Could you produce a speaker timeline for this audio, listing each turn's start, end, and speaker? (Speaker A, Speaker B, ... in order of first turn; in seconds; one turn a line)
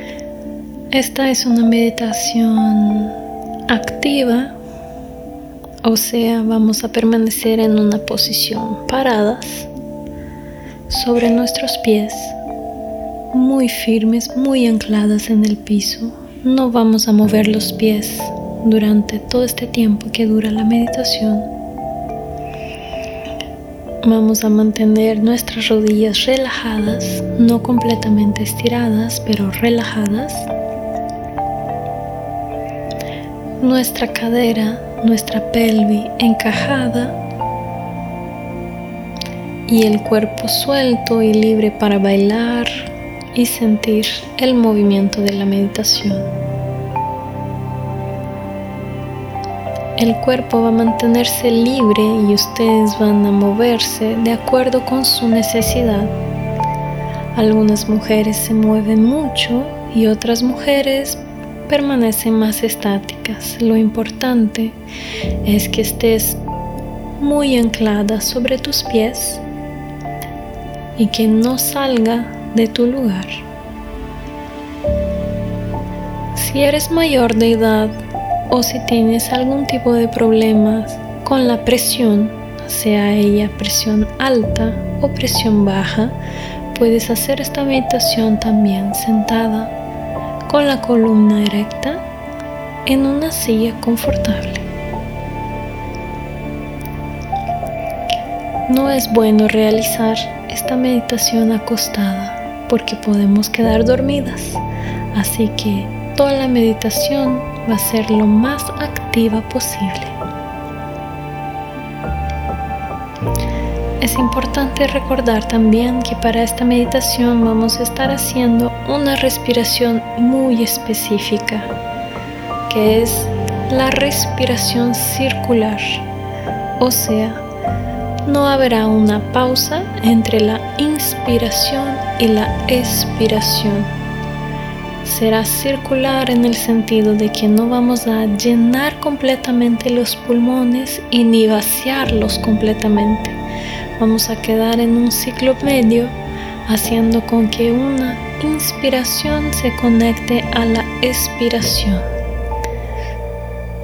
Speaker A: 0.9-3.1
Speaker A: 3.7-4.5
Speaker A: 5.8-9.7
Speaker A: 10.9-12.4
Speaker A: 13.3-21.5
Speaker A: 24.0-30.5
Speaker A: 33.6-37.2
Speaker A: 39.7-46.3
Speaker A: 50.0-56.1
Speaker A: 57.3-64.8
Speaker A: 65.4-66.4
Speaker A: 67.2-69.4
Speaker A: 71.0-73.4
Speaker A: 76.3-78.0
Speaker A: 78.5-86.2
Speaker A: 86.7-89.7
Speaker A: 90.5-92.0
Speaker A: 92.8-94.6
Speaker A: 98.7-104.6
Speaker A: 105.1-110.1
Speaker A: 114.0-121.7
Speaker A: 122.7-126.0
Speaker A: 126.8-127.4
Speaker A: 128.2-133.9
Speaker A: 135.0-143.4
Speaker A: 144.0-152.0